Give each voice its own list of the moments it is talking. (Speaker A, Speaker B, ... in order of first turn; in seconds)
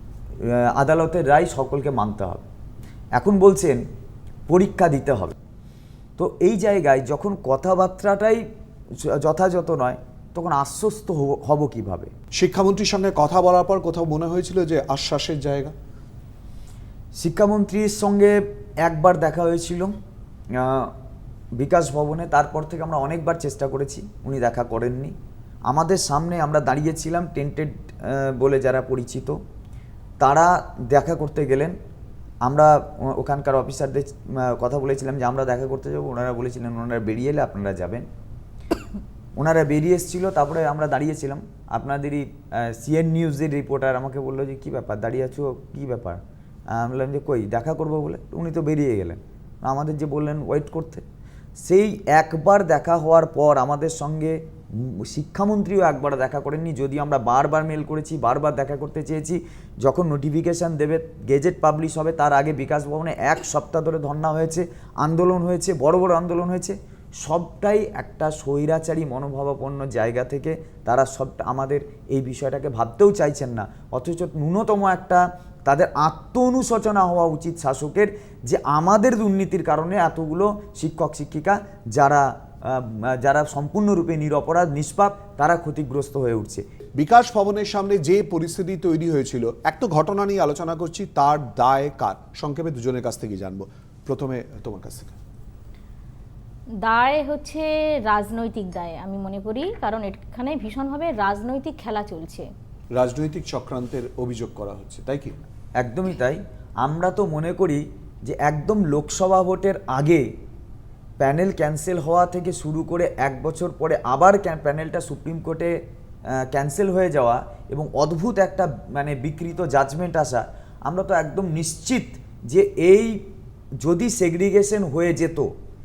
Speaker A: 0.4-2.5, 3.1-3.8, 4.5-5.3, 6.2-8.4, 8.9-12.1, 17.2-19.9, 20.5-20.9, 21.6-25.1, 25.7-29.4, 30.2-31.8, 32.4-38.1, 39.4-51.0, 51.6-86.6, 105.8-110.3, 111.2-115.7, 116.3-123.2, 123.8-125.5
Speaker B: 12.3-15.7, 87.0-95.1, 102.9-105.3
Speaker C: 96.8-102.5